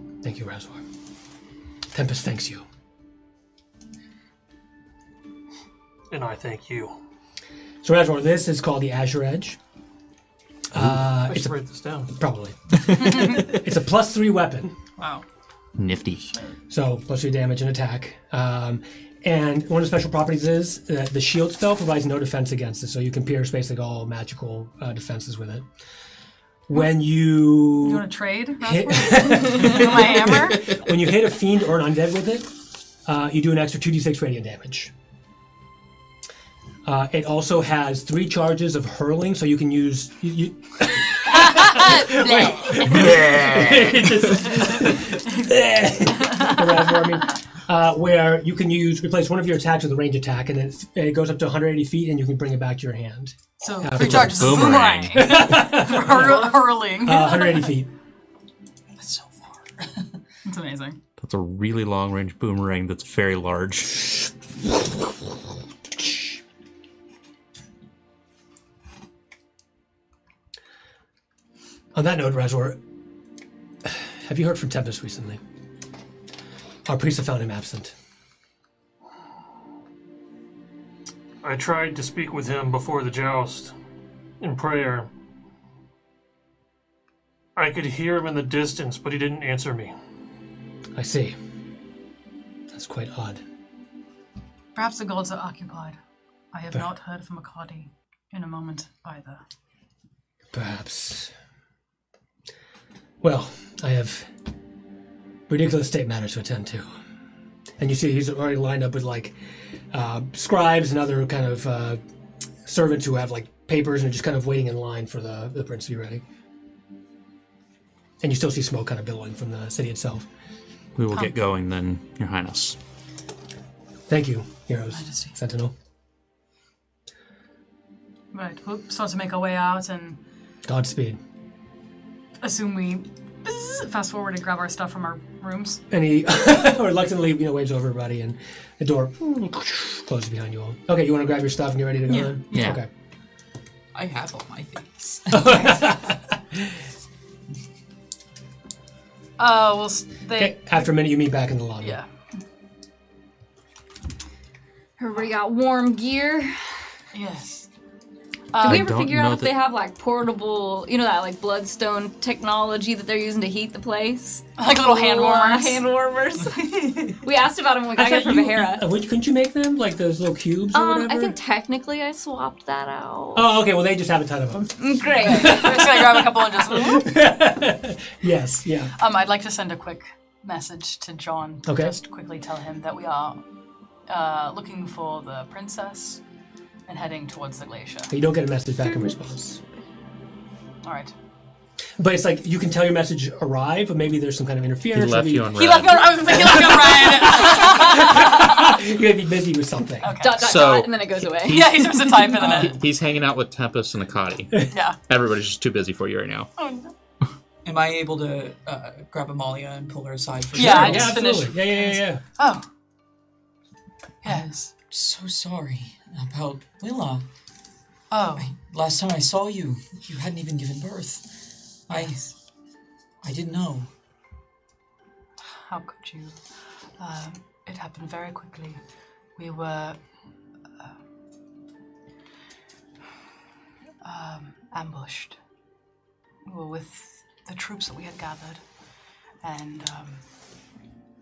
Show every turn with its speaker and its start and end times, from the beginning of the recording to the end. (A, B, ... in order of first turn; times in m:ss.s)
0:00.2-0:00.8 A
0:01.9-0:02.6 A
0:06.1-0:07.0 B
0:07.8-0:09.6 A
0:10.7-0:11.5 A
0:10.8-0:12.1 B
0:12.1-0:14.8 A
0:13.1-0:13.4 C
0:15.0-0:15.2 C
0:15.8-0:16.3 D
0:16.7-0:25.6 A
0:26.7-0:28.0 A
0:27.8-0:30.8 C
0:28.6-0:32.5 A
0:33.0-0:34.9 A
0:36.8-0:57.9 A
0:41.3-0:43.2 C
0:42.9-0:44.1 D
0:44.4-0:45.4 C
0:46.1-0:46.6 C
0:53.6-0:57.7 C
0:53.9-0:55.4 D
0:54.7-0:55.3 E
0:59.0-1:00.1 F
1:00.4-1:01.0 C
1:01.2-1:04.0 D
1:11.9-1:12.8 A
1:13.8-1:15.4 A
1:16.8-1:17.9 A
1:21.4-1:23.7 B
1:24.4-1:25.1 B
1:27.6-1:29.9 B
1:30.9-1:31.4 A
1:32.7-1:33.4 A
1:34.7-1:36.0 C
1:36.5-1:39.4 C
1:40.5-1:41.3 A
1:43.2-1:44.3 A
1:45.5-1:46.9 A
1:47.8-1:49.4 A
1:49.9-1:52.0 A
1:52.6-1:56.2 A
1:58.2-2:00.2 A
2:01.0-2:02.8 D
2:04.1-2:05.7 A
2:04.9-2:05.3 C
2:08.3-2:10.2 C
2:10.6-2:11.2 A
2:12.4-2:15.8 C
2:15.9-2:22.9 A
2:22.1-2:22.4 C
2:22.5-2:22.8 D
2:23.9-2:25.7 F
2:25.3-2:26.8 A
2:29.4-2:30.7 C
2:30.3-2:32.0 A
2:35.0-2:36.6 E
2:37.1-2:37.7 C
2:38.5-2:38.9 C
2:38.6-2:39.5 D
2:38.6-2:48.8 E
2:44.6-2:45.8 C
2:47.9-2:51.4 A
2:50.7-2:53.5 E
2:53.3-2:58.9 A
2:54.8-2:55.9 E
2:55.2-2:57.1 C
2:59.0-3:03.4 C
3:01.6-3:02.0 A
3:04.1-3:06.2 C
3:06.9-3:08.1 C
3:08.1-3:09.6 A
3:10.8-3:11.1 C
3:12.0-3:15.6 A
3:14.9-3:16.7 D
3:15.5-3:18.8 C
3:16.3-3:20.1 A
3:20.0-3:20.4 C
3:20.2-3:22.1 E
3:20.4-3:26.5 D
3:21.4-3:22.8 C
3:24.7-3:25.0 C
3:26.6-3:26.9 C
3:27.6-3:31.2 F
3:30.5-3:32.2 A
3:30.6-3:32.6 C
3:34.2-3:34.7 C
3:34.2-3:37.2 F
3:38.1-3:38.5 C
3:38.4-3:41.4 F
3:41.9-3:42.3 F
3:41.9-3:42.3 C
3:43.2-3:43.9 F
3:45.5-3:46.4 C
3:47.0-3:48.8 C
3:49.4-3:50.0 C
3:54.0-3:55.4 C
3:56.4-3:58.6 C
3:59.4-4:00.2 C